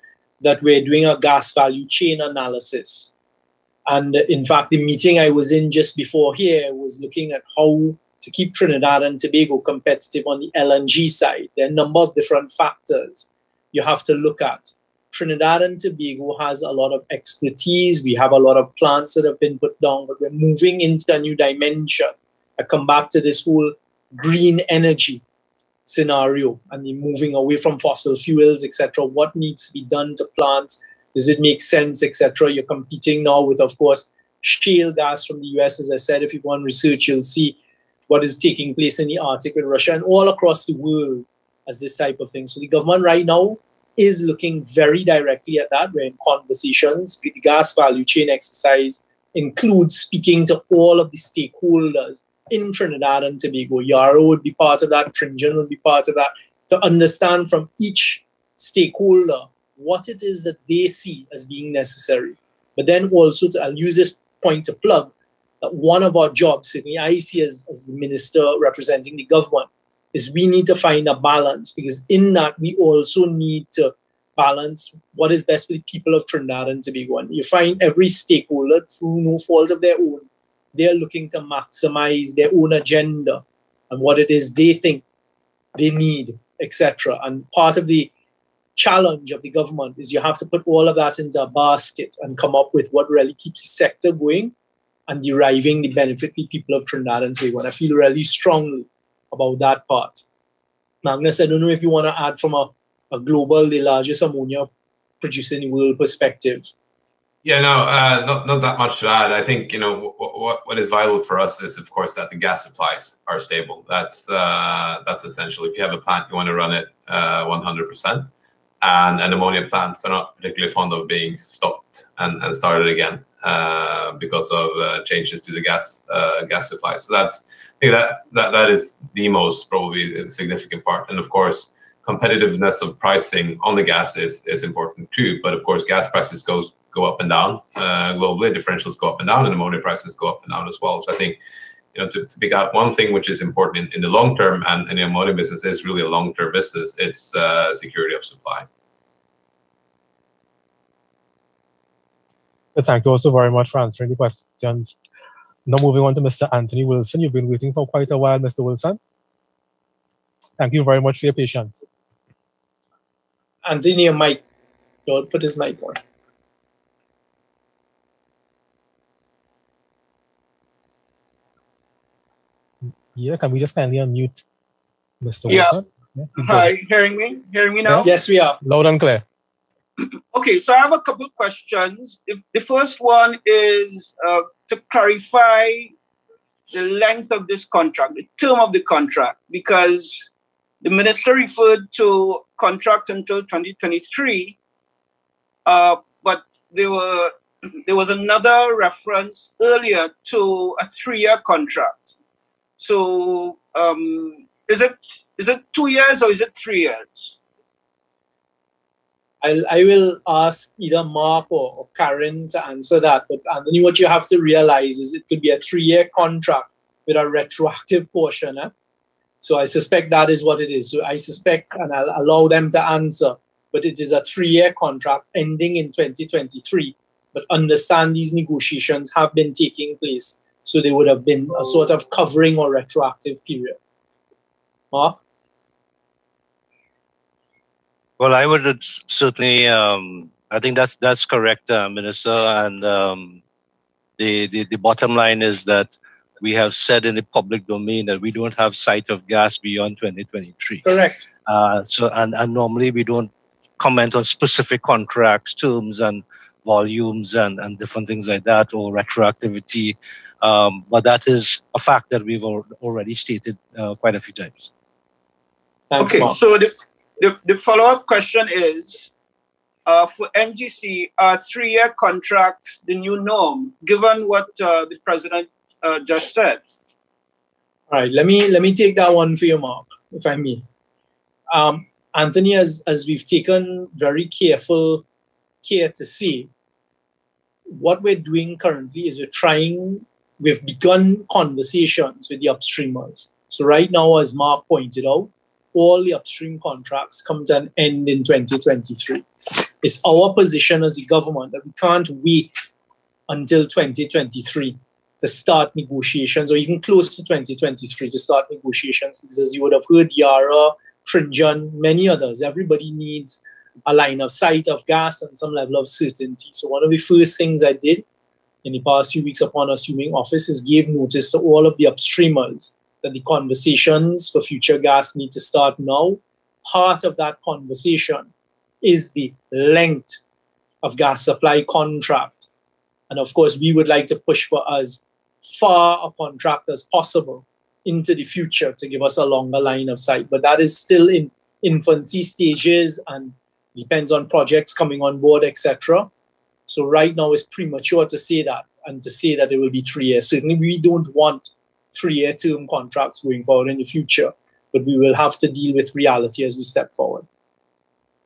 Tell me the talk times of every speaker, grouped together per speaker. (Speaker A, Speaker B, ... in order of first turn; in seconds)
Speaker A: 0.4-3.1, 3.9-25.2, 25.9-37.6, 38.1-85.0, 85.7-88.1, 88.8-94.5, 95.1-100.2, 101.0-104.7, 105.2-106.7, 163.6-164.4, 165.1-166.0, 178.0-178.6, 209.4-218.7, 219.4-233.8, 234.9-235.2, 250.8-251.3, 265.9-266.4, 277.9-280.6, 281.5-285.0, 285.6-286.5, 287.7-302.6, 303.3-318.0, 318.6-328.3, 328.8-330.2, 330.8-332.4, 333.1-346.1, 346.7-357.2
Speaker B: 107.4-118.3, 118.8-141.4, 141.9-148.7
Speaker C: 152.7-154.9, 155.7-159.0, 160.6-161.8, 173.1-174.4, 175.2-176.7, 177.8-179.2
Speaker D: 175.5-175.8, 176.4-178.1, 180.0-185.9, 186.7-190.3, 190.8-194.6, 195.6-202.2, 202.8-207.4, 266.0-269.1, 269.9-276.8
Speaker E: 238.2-243.4, 244.2-250.8, 251.4-264.7